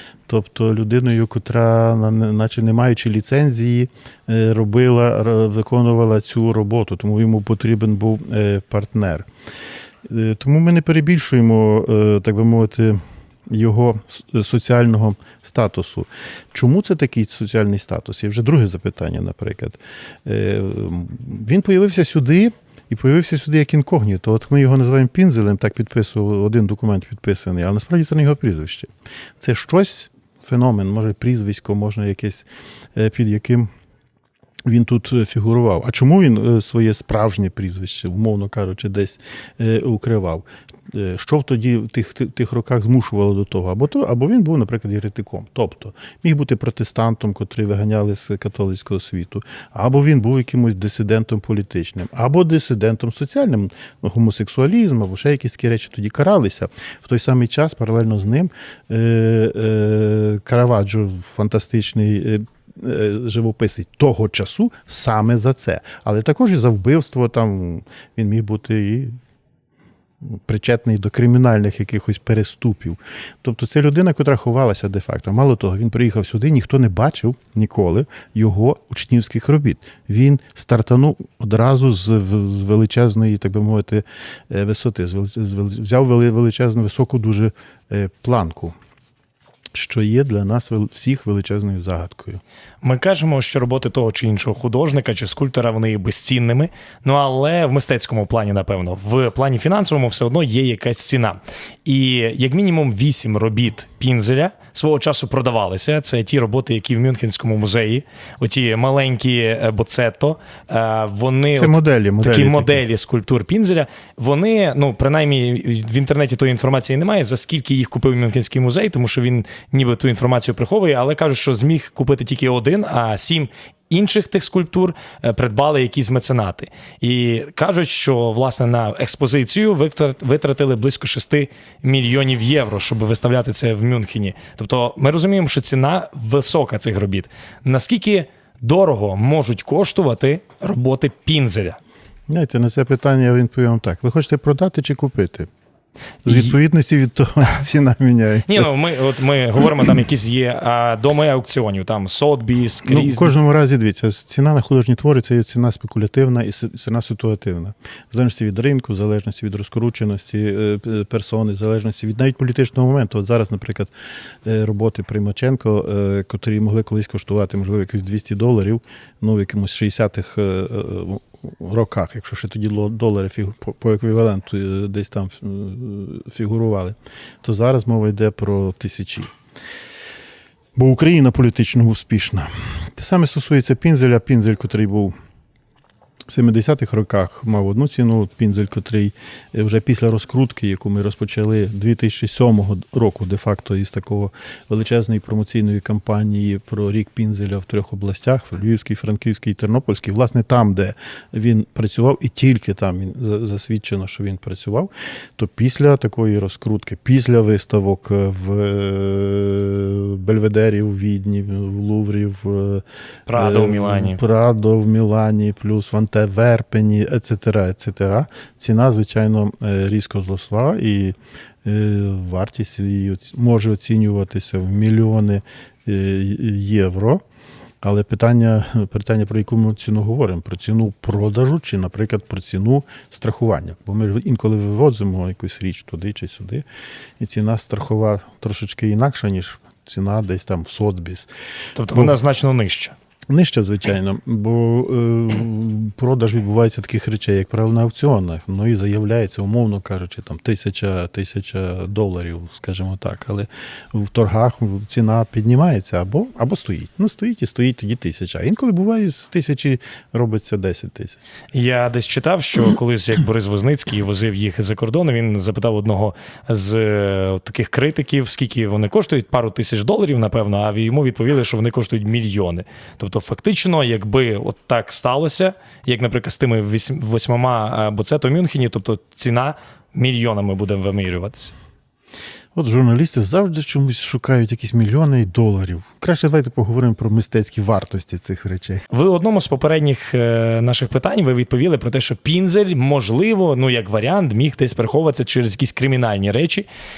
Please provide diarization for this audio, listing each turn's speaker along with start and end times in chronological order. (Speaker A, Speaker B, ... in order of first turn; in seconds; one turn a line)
Speaker A: 0.3-9.3
Speaker A: 10.1-33.7
Speaker A: 34.6-69.2
Speaker A: 70.2-88.7
Speaker A: 89.7-92.4
Speaker B: 92.8-141.8
Speaker A: 111.5-112.8
Speaker A: 142.3-145.5
Speaker A: 146.2-148.7
Speaker B: 148.5-153.3
Speaker A: 152.8-163.9
Speaker A: 164.4-179.3
Speaker A: 180.7-185.1
Speaker A: 186.3-227.2
Speaker B: 213.3-214.2
Speaker A: 227.8-236.6
Speaker A: 237.2-241.3
Speaker B: 241.8-242.9
Speaker A: 241.9-242.2
Speaker A: 243.3-261.2
Speaker B: 261.5-281.5
Speaker A: 282.5-288.8
Speaker B: 288.9-296.7